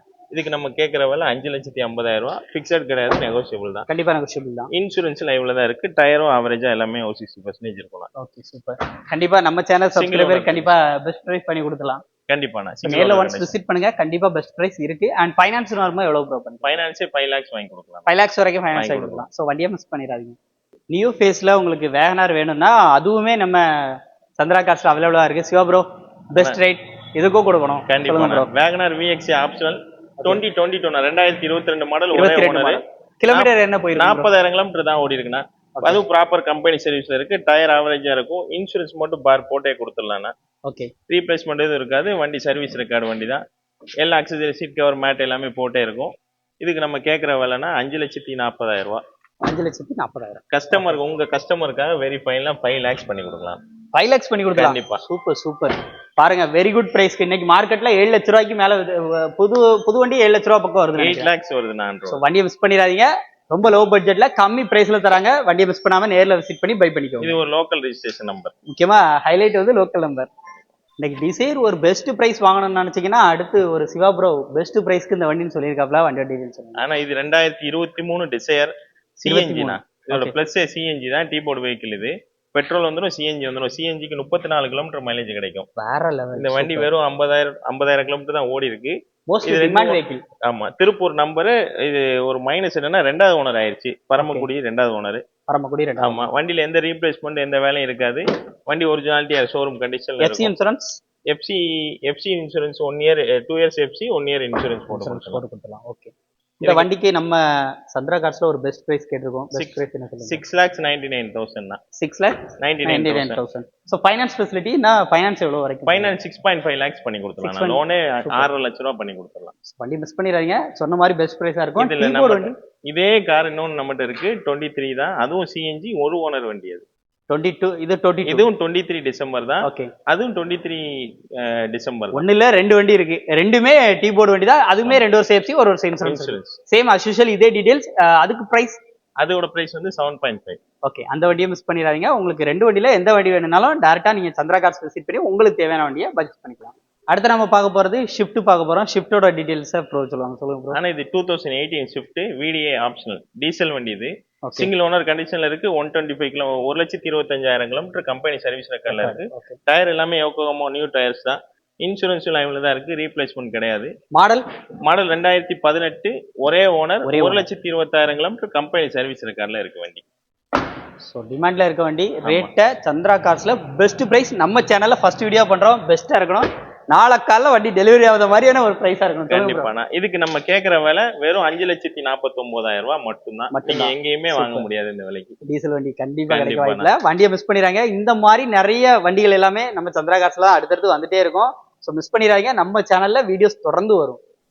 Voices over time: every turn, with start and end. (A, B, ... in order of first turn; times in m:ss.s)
0:00.3-0:03.8 A
0:03.9-0:04.7 B
0:04.7-0:08.1 A
0:08.2-0:12.0 B
0:09.9-0:10.7 A
0:12.3-0:13.5 A
0:12.8-0:16.8 B
0:16.6-0:18.1 A
0:18.1-0:20.4 B
0:18.7-0:19.2 A
0:20.9-0:28.5 B
0:27.9-0:40.3 A
0:32.1-0:34.3 B
0:41.1-0:43.4 A
0:44.0-0:49.0 A
0:49.4-0:51.0 B
0:50.5-0:53.6 A
0:53.9-1:01.3 B
0:54.5-0:55.0 A
1:01.0-1:02.2 A
1:02.1-1:07.4 B
1:07.2-1:08.5 A
1:08.7-1:10.3 B
1:11.0-1:16.8 B
1:16.8-1:25.7 A
1:19.2-1:20.4 B
1:25.8-1:26.9 B
1:26.3-1:35.2 A
1:29.3-1:30.2 B
1:34.2-1:34.5 B
1:35.5-1:36.3 B
1:36.0-1:40.5 A
1:40.2-1:41.0 B
1:41.3-1:45.4 A
1:44.9-1:50.4 B
1:46.6-1:46.9 A
1:49.5-1:51.8 A
1:52.0-1:56.1 B
1:52.6-1:53.4 A
1:55.8-1:59.5 A
1:57.4-1:58.5 B
1:59.7-2:02.5 B
2:01.8-2:06.8 A
2:07.3-2:08.5 B
2:08.2-2:10.8 A
2:09.6-2:09.9 B
2:11.4-2:12.2 A
2:12.1-2:18.8 B
2:16.0-2:16.6 A
2:19.2-2:20.6 A
2:20.8-2:30.8 B
2:30.7-2:43.9 A
2:34.4-2:34.7 B
2:38.9-2:39.6 B
2:44.2-2:44.4 B
2:44.8-2:50.0 A
2:47.0-2:47.4 B
2:51.0-2:59.7 B
2:52.2-2:52.5 A
2:59.3-3:05.4 A
3:03.5-3:04.7 B
3:05.4-3:14.2 B
3:06.3-3:06.9 A